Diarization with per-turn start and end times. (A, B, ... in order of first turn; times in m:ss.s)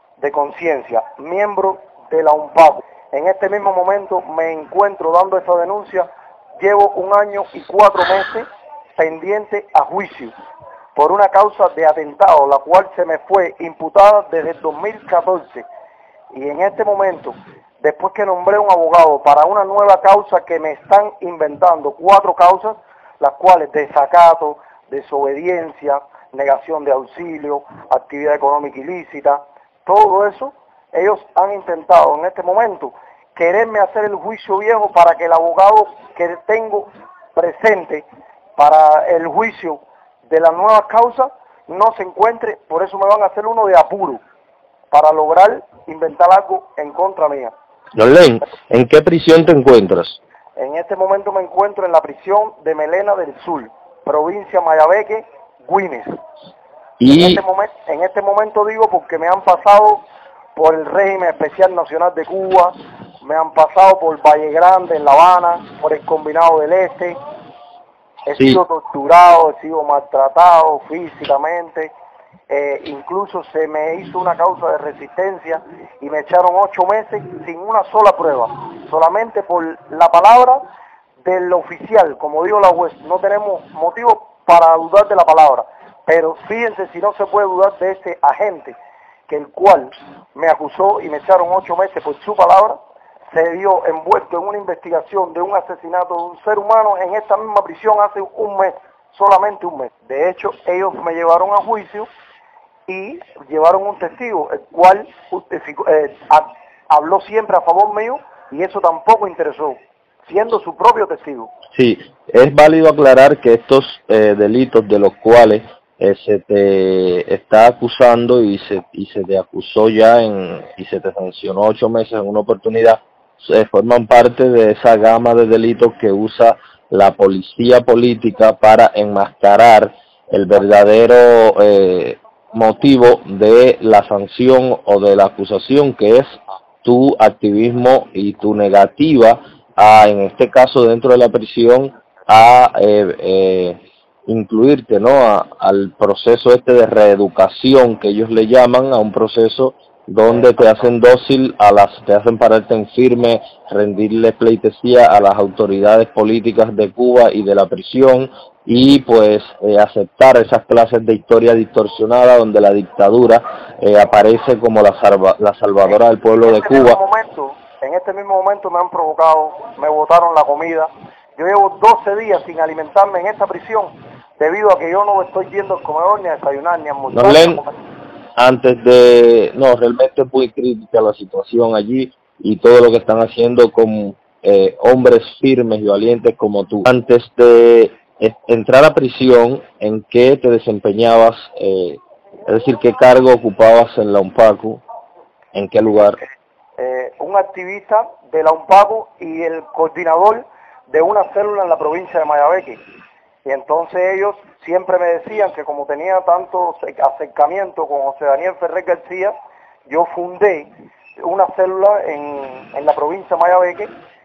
0:00.2-0:06.1 A
0:06.6-0:10.3 A
0:11.0-0:15.7 A
0:16.3-0:38.0 A
0:38.6-0:44.2 A
0:44.9-0:47.5 A
0:48.0-0:50.2 B
0:50.6-0:56.1 A
0:57.0-0:57.4 B
0:57.1-1:00.0 A
1:00.6-1:07.2 A
1:08.3-1:11.9 A
1:08.4-1:08.6 B
1:12.5-1:20.6 A
1:21.2-1:28.8 A
1:29.3-1:32.8 A
1:33.3-1:42.1 A
1:42.9-1:51.5 A
1:51.8-2:47.0 B
2:45.9-2:57.8 A
2:57.1-2:57.6 B
2:58.4-3:14.8 B
3:15.5-3:16.2 B
3:16.8-3:22.8 A
3:23.5-3:29.3 A
3:29.9-3:33.9 A